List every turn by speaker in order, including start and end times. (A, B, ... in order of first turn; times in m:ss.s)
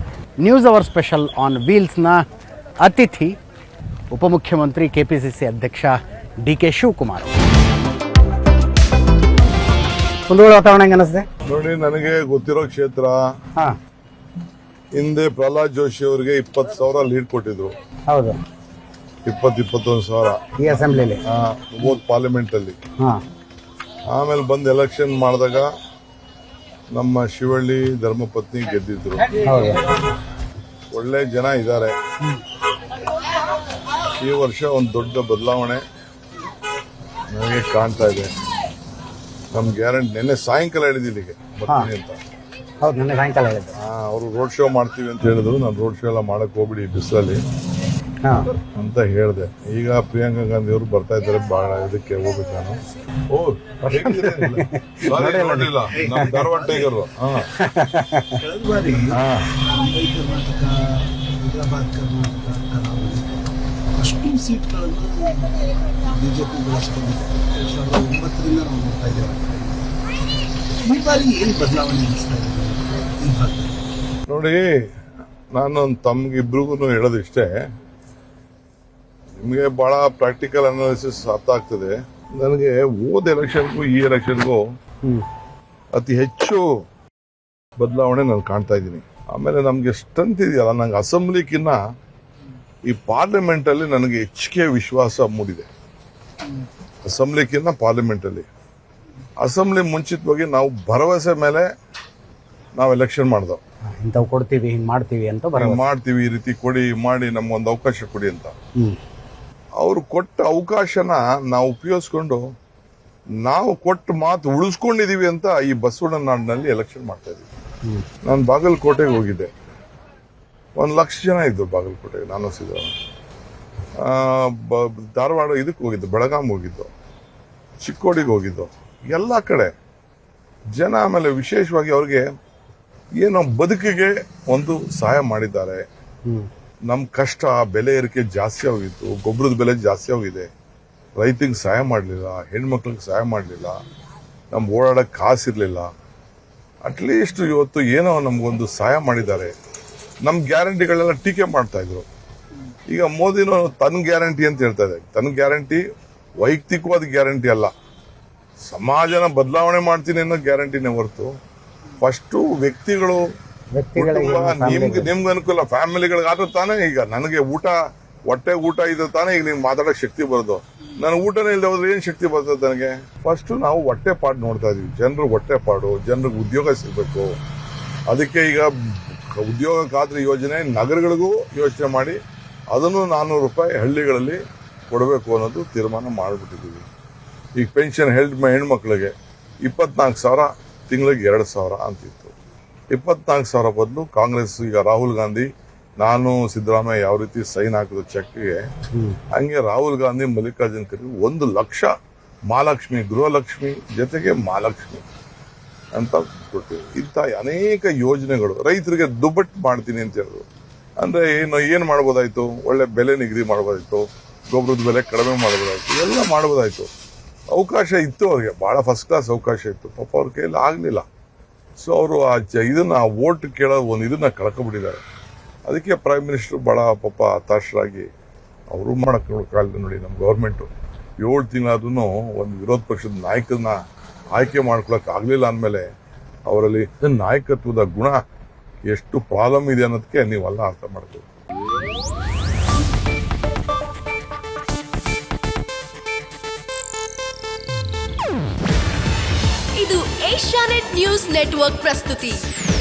0:00.4-0:02.2 A
0:02.8-0:03.4 A
0:04.1-0:07.3 A
0:10.3-0:11.3 A
0:11.5-0:13.2 B
0:15.0-0:17.7 B
0:18.1-0:18.4 A
0:19.3-0:22.8 B
0:20.6-0:21.2 A
0:24.1-0:25.7 B
0:26.9-0:29.3 B
0:29.4-0:29.8 A
0:30.9-0:31.9 B
0:34.2-0:35.8 B
0:37.3-0:38.3 B
0:39.5-0:42.2 B
0:42.8-0:43.7 A
0:43.8-0:47.5 B
0:48.2-0:48.5 A
0:48.5-0:52.8 B
0:53.3-0:57.5 B
0:53.9-0:56.5 A
0:56.1-0:56.9 C
0:57.5-0:58.4 A
0:58.4-1:09.9 C
0:59.1-0:59.5 B
1:10.8-1:13.8 C
1:14.3-1:14.8 B
1:15.5-1:17.6 B
1:19.4-1:24.6 B
1:25.9-1:26.7 B
1:27.8-1:31.8 B
1:32.9-1:35.7 B
1:37.1-1:38.5 B
1:39.4-1:41.7 B
1:42.8-1:43.6 B
1:44.0-1:45.8 A
1:45.6-1:48.6 B
1:49.8-1:52.5 B
1:53.4-1:57.5 B
1:58.2-1:59.5 B
2:00.8-2:02.9 B
2:04.0-2:06.9 B
2:07.8-2:09.7 B
2:10.8-2:12.3 B
2:13.2-2:15.8 B
2:16.9-2:20.5 B
2:21.2-2:23.8 B
2:24.5-2:25.9 B
2:26.8-2:29.5 B
2:30.2-2:32.1 B
2:32.9-2:35.8 B
2:36.4-2:37.7 B
2:38.7-2:41.3 B
2:42.0-2:43.3 B
2:43.7-2:45.1 A
2:44.0-2:57.4 B
2:58.1-3:02.2 B
3:02.7-3:06.9 B
3:07.6-3:09.1 B
3:09.6-3:12.3 B
3:12.9-3:15.5 B
3:16.0-3:18.6 B
3:18.9-3:19.2 A
3:19.3-3:21.9 B
3:22.5-3:25.0 B
3:26.0-3:30.5 B
3:31.0-3:36.9 B
3:37.5-3:41.1 B
3:41.8-3:45.0 B
3:45.7-3:48.1 B
3:48.7-3:50.7 B
3:51.2-3:53.8 B
3:54.3-3:55.9 B
3:56.5-3:58.2 B
3:58.9-4:01.2 B
4:09.8-4:12.4 D